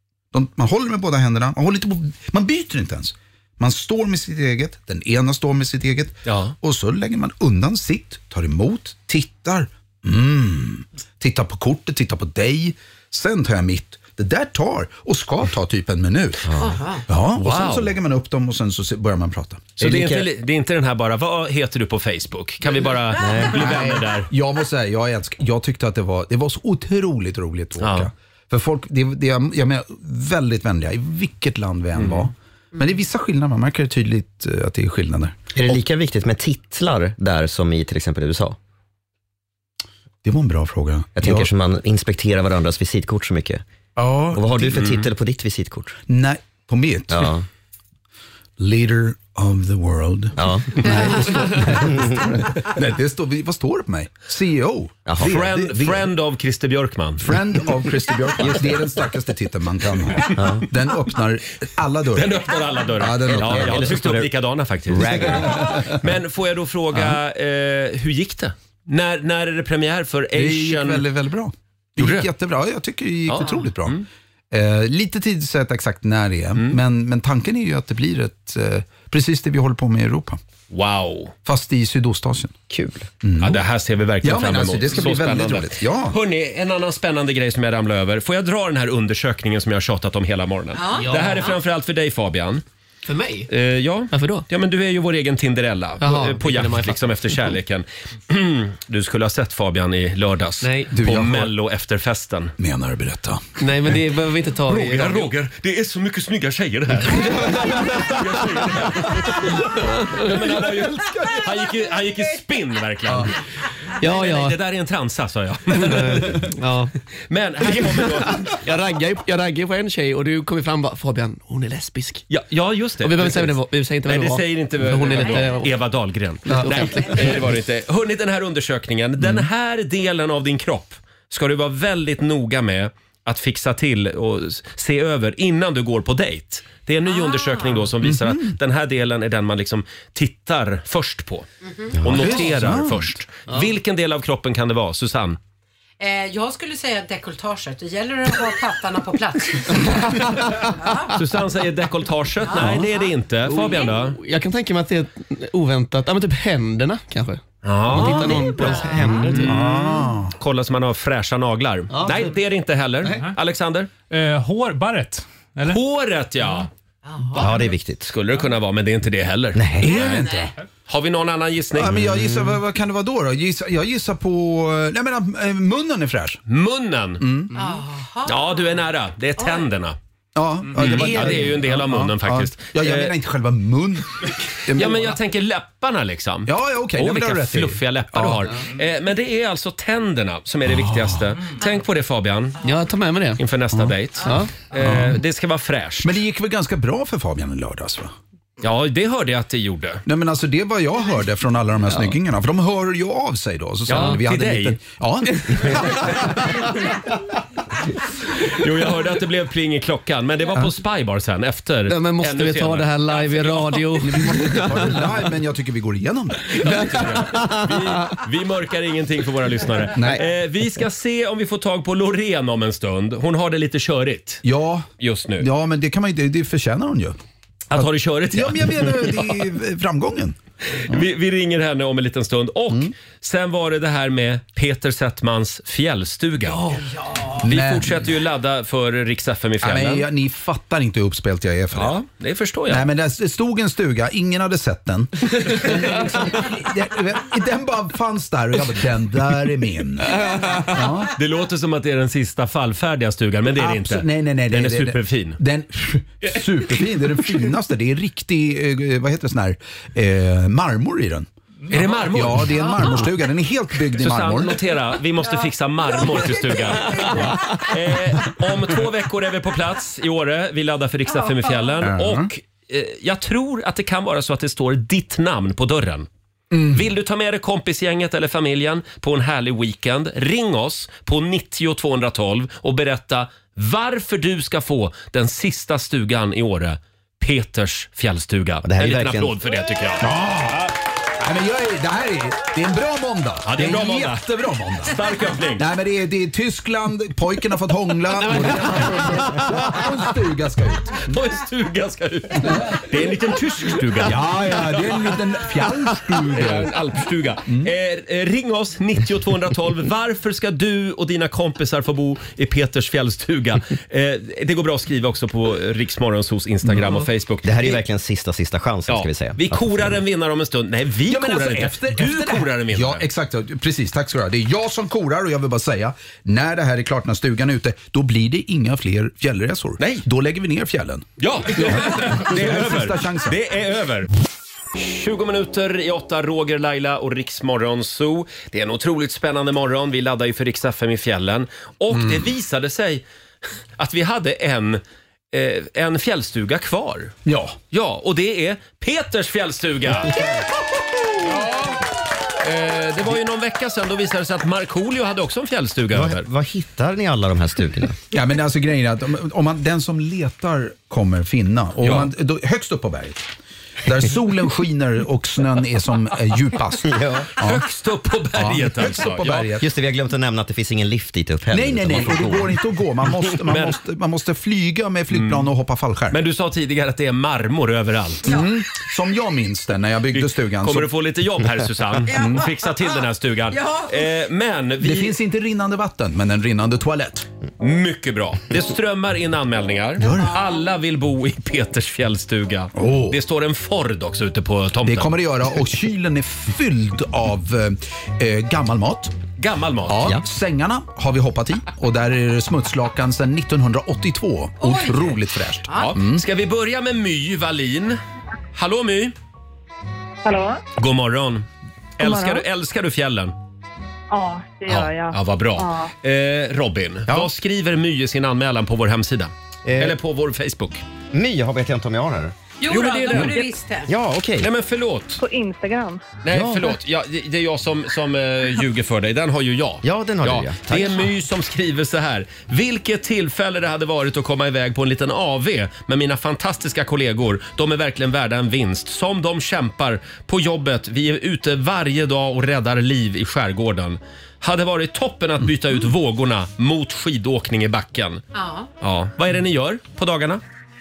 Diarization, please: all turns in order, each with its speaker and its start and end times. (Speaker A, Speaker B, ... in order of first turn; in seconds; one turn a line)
Speaker A: 0.3-16.6
Speaker B: 6.3-6.5
Speaker C: 16.6-17.0
Speaker A: 17.1-19.8
Speaker B: 17.4-18.0
Speaker B: 19.8-24.3
Speaker D: 19.8-20.3
Speaker D: 23.2-23.8
Speaker A: 23.4-35.4
Speaker B: 27.8-28.1
Speaker B: 32.0-32.3
Speaker D: 35.5-38.6
Speaker A: 40.2-41.5
Speaker D: 41.2-43.6
Speaker A: 44.0-44.8
Speaker D: 44.3-46.0
Speaker B: 44.7-45.1
Speaker A: 46.1-47.4
Speaker D: 47.1-47.5
Speaker A: 48.6-56.1
Speaker D: 50.4-51.3
Speaker D: 51.9-52.2
Speaker D: 55.1-55.4
Speaker B: 55.2-57.4
Speaker A: 57.2-64.0
Speaker D: 58.4-58.7
Speaker D: 60.4-60.6
Speaker B: 62.1-71.0
Speaker D: 63.3-64.3
Speaker D: 64.9-65.8
Speaker A: 65.0-66.0
Speaker A: 70.3-80.4
Speaker B: 72.0-72.3
Speaker B: 73.3-74.0
Speaker B: 80.7-81.3
Speaker A: 81.5-82.5
Speaker D: 82.7-83.1
Speaker A: 83.2-83.6
Speaker B: 83.4-92.6
Speaker A: 84.2-86.2
Speaker C: 90.8-91.6
Speaker E: 91.0-91.6
Speaker E: 93.1-93.5
Speaker B: 93.5-102.5
Speaker E: 94.1-94.5
Speaker E: 96.0-97.6
Speaker E: 100.6-101.0
Speaker A: 100.9-101.5
Speaker A: 102.6-103.4
Speaker E: 103.6-105.3
Speaker B: 104.7-113.4
Speaker E: 107.1-108.7
Speaker E: 109.9-110.4
Speaker A: 111.0-111.5
Speaker E: 114.0-114.6
Speaker B: 114.0-116.5
Speaker E: 115.8-116.9
Speaker B: 117.3-118.5
Speaker E: 117.6-122.3
Speaker B: 122.3-141.5
Speaker E: 123.0-125.7
Speaker C: 125.1-125.5
Speaker E: 126.5-127.6
Speaker A: 129.2-129.5
Speaker C: 137.1-137.8
Speaker A: 138.0-138.6
Speaker C: 141.6-142.4
Speaker B: 142.0-145.4
Speaker A: 142.1-143.2
Speaker C: 146.0-151.1
Speaker E: 150.4-151.2
Speaker B: 151.1-154.2
Speaker C: 152.4-153.1
Speaker E: 152.5-152.9
Speaker E: 153.4-159.6
Speaker B: 157.6-159.6
Speaker C: 158.1-159.5
Speaker A: 159.4-160.4
Speaker B: 160.4-163.9
Speaker E: 161.9-162.4
Speaker F: 163.1-163.4
Speaker F: 164.1-165.8
Speaker B: 165.7-166.7
Speaker C: 167.1-167.5
Speaker D: 167.3-168.2
Speaker B: 167.4-170.3
Speaker D: 169.6-170.0
Speaker A: 169.8-170.5
Speaker C: 169.8-170.5
Speaker B: 170.9-172.0
Speaker A: 171.7-176.4
Speaker D: 171.9-172.6
Speaker B: 176.5-177.2
Speaker A: 177.2-177.6
Speaker C: 177.5-178.8
Speaker B: 178.3-180.0
Speaker C: 179.4-179.7
Speaker A: 180.3-185.2
Speaker B: 180.8-183.1
Speaker B: 184.8-192.6
Speaker A: 186.5-188.6
Speaker A: 190.7-191.3
Speaker E: 192.6-193.4
Speaker B: 193.4-196.1
Speaker E: 194.2-194.6
Speaker A: 194.8-195.2
Speaker A: 196.0-198.1
Speaker B: 198.6-200.0
Speaker A: 200.1-206.4
Speaker B: 203.9-204.8
Speaker B: 208.4-214.3
Speaker E: 211.9-214.9
Speaker A: 214.0-217.0
Speaker E: 216.6-218.2
Speaker B: 216.6-224.4
Speaker A: 219.9-220.2
Speaker A: 224.4-224.9
Speaker B: 225.0-225.5
Speaker A: 225.4-227.2
Speaker B: 227.7-229.4
Speaker A: 227.7-230.4
Speaker B: 230.8-236.8
Speaker B: 237.4-240.1
Speaker A: 237.4-238.1
Speaker A: 239.6-242.0
Speaker B: 241.7-242.8
Speaker A: 242.7-251.1
Speaker B: 250.4-255.4
Speaker A: 253.6-261.3
Speaker B: 261.7-262.9
Speaker A: 262.1-264.6
Speaker B: 263.9-276.1
Speaker A: 267.1-267.4
Speaker A: 271.8-272.3
Speaker A: 276.5-276.9
Speaker B: 276.7-290.1
Speaker D: 288.6-289.3
Speaker A: 290.0-295.0
Speaker B: 293.4-294.3
Speaker B: 294.9-295.6
Speaker A: 295.6-301.2
Speaker B: 298.3-298.7
Speaker B: 301.0-304.2
Speaker A: 302.4-302.8
Speaker A: 304.0-306.7
Speaker B: 306.2-317.8
Speaker A: 307.5-307.7
Speaker D: 317.4-320.0
Speaker B: 318.9-323.1
Speaker A: 321.1-333.4
Speaker B: 329.8-330.1
Speaker B: 331.2-334.1
Speaker B: 334.8-343.1
Speaker A: 341.9-342.3
Speaker B: 343.8-344.8
Speaker B: 345.3-347.1
Speaker A: 347.3-347.6
Speaker B: 347.7-350.2
Speaker B: 351.2-351.8
Speaker B: 352.4-356.2
Speaker D: 355.9-358.0
Speaker A: 358.1-363.3
Speaker B: 361.8-362.1
Speaker A: 363.8-367.6
Speaker D: 366.8-367.3
Speaker B: 367.4-369.5
Speaker A: 368.4-369.7
Speaker D: 369.6-372.6
Speaker A: 371.5-376.2
Speaker B: 373.5-373.8
Speaker B: 375.1-375.5
Speaker B: 376.1-378.4
Speaker A: 378.2-380.9
Speaker B: 380.1-385.2
Speaker A: 382.1-382.5
Speaker C: 383.5-383.9
Speaker A: 384.8-387.3
Speaker B: 387.6-395.1
Speaker A: 390.0-390.4
Speaker A: 392.8-393.2
Speaker A: 394.9-399.1
Speaker B: 399.4-400.1
Speaker A: 399.9-406.2
Speaker C: 404.6-405.1
Speaker C: 405.7-405.9
Speaker B: 405.8-408.0
Speaker B: 408.6-409.1
Speaker G: 410.2-410.6
Speaker B: 410.8-411.5
Speaker B: 412.0-413.4
Speaker G: 412.0-412.4
Speaker G: 414.1-415.9
Speaker B: 414.7-420.8
Speaker D: 419.7-420.0
Speaker D: 421.1-422.3
Speaker C: 422.6-423.9
Speaker B: 422.7-423.5
Speaker D: 423.9-424.5
Speaker B: 424.4-425.2
Speaker G: 425.2-426.2
Speaker B: 426.2-448.2
Speaker D: 426.3-426.8
Speaker D: 429.8-431.1
Speaker C: 448.3-448.7
Speaker B: 448.8-450.4